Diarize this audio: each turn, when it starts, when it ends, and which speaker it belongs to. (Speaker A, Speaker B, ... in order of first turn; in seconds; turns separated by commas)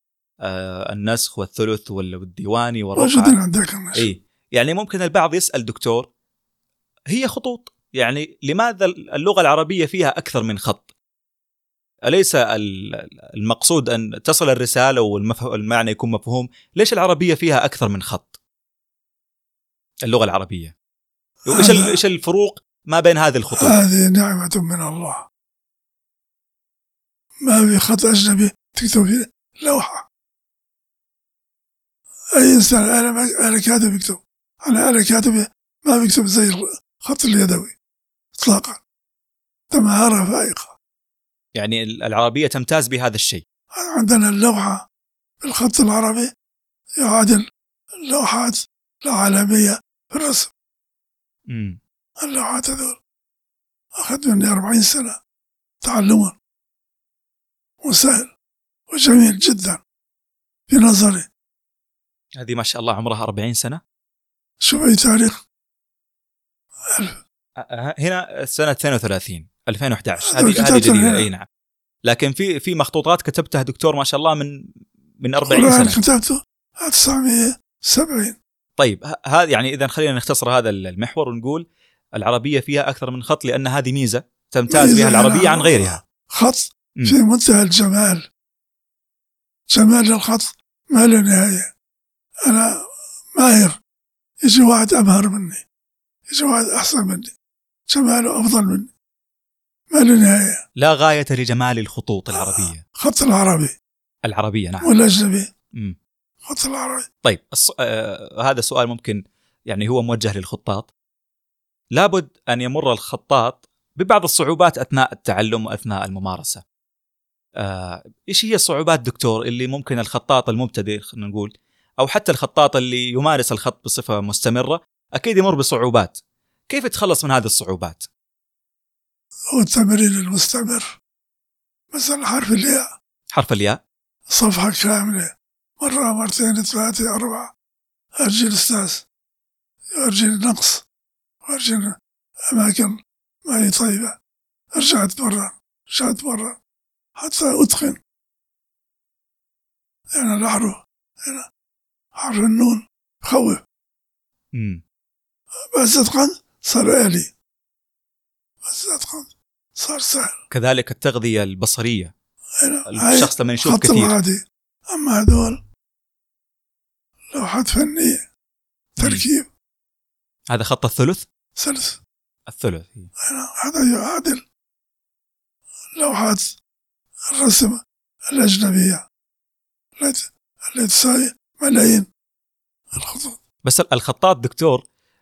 Speaker A: 0.4-3.4, Speaker B: 3.0-4.1, Speaker A: 4.0-6.1, Speaker A: 7.1-10.9, Speaker A: 12.1-18.4, Speaker A: 20.0-20.7, Speaker B: 21.5-21.9, Speaker A: 21.5-23.8, Speaker B: 23.6-25.3, Speaker B: 27.4-30.1, Speaker B: 32.4-37.7, Speaker B: 38.4-38.8, Speaker B: 39.7-40.8, Speaker A: 41.5-43.4, Speaker B: 43.7-44.9, Speaker B: 45.4-46.3, Speaker B: 47.0-47.5, Speaker B: 48.0-50.5, Speaker A: 51.5-51.8, Speaker B: 52.2-53.0, Speaker B: 54.0-55.2, Speaker B: 55.8-56.4, Speaker B: 57.8-58.3, Speaker B: 58.9-59.8, Speaker B: 60.7-61.3, Speaker A: 62.4-63.8, Speaker B: 64.6-65.4, Speaker B: 66.9-67.2, Speaker A: 67.6-71.5, Speaker B: 70.2-71.3, Speaker A: 72.1-74.7, Speaker A: 75.2-76.0, Speaker B: 75.5-78.4, Speaker A: 78.8-86.0, Speaker B: 84.7-88.3, Speaker B: 89.7-91.7, Speaker B: 92.4-93.8, Speaker B: 94.4-95.6, Speaker B: 96.3-97.3, Speaker B: 97.9-98.9, Speaker B: 99.9-100.6, Speaker A: 100.8-102.8, Speaker B: 102.3-103.8, Speaker A: 104.2-104.9, Speaker B: 104.8-105.5, Speaker B: 106.4-107.1, Speaker A: 107.2-110.9, Speaker A: 111.9-116.6, Speaker A: 117.6-126.2, Speaker A: 126.7-128.1, Speaker B: 129.5-131.0, Speaker B: 131.9-132.9, Speaker A: 133.3-133.8, Speaker B: 134.3-137.5, Speaker B: 138.2-139.1, Speaker B: 139.9-140.8, Speaker B: 141.4-142.0, Speaker B: 142.5-144.2, Speaker B: 144.7-146.6, Speaker B: 147.2-148.0, Speaker B: 150.1-151.5, Speaker B: 152.2-153.6, Speaker A: 154.5-154.8, Speaker B: 155.7-157.3, Speaker B: 158.6-160.4, Speaker A: 160.5-162.1, Speaker B: 162.6-165.6, Speaker A: 162.9-164.1, Speaker B: 167.3-168.2, Speaker B: 169.0-169.5, Speaker A: 170.5-171.2, Speaker B: 171.6-172.0, Speaker A: 172.5-173.1, Speaker B: 173.2-174.5, Speaker B: 175.9-176.6, Speaker B: 177.3-179.1, Speaker B: 180.0-182.1, Speaker B: 182.9-183.4, Speaker A: 183.6-184.8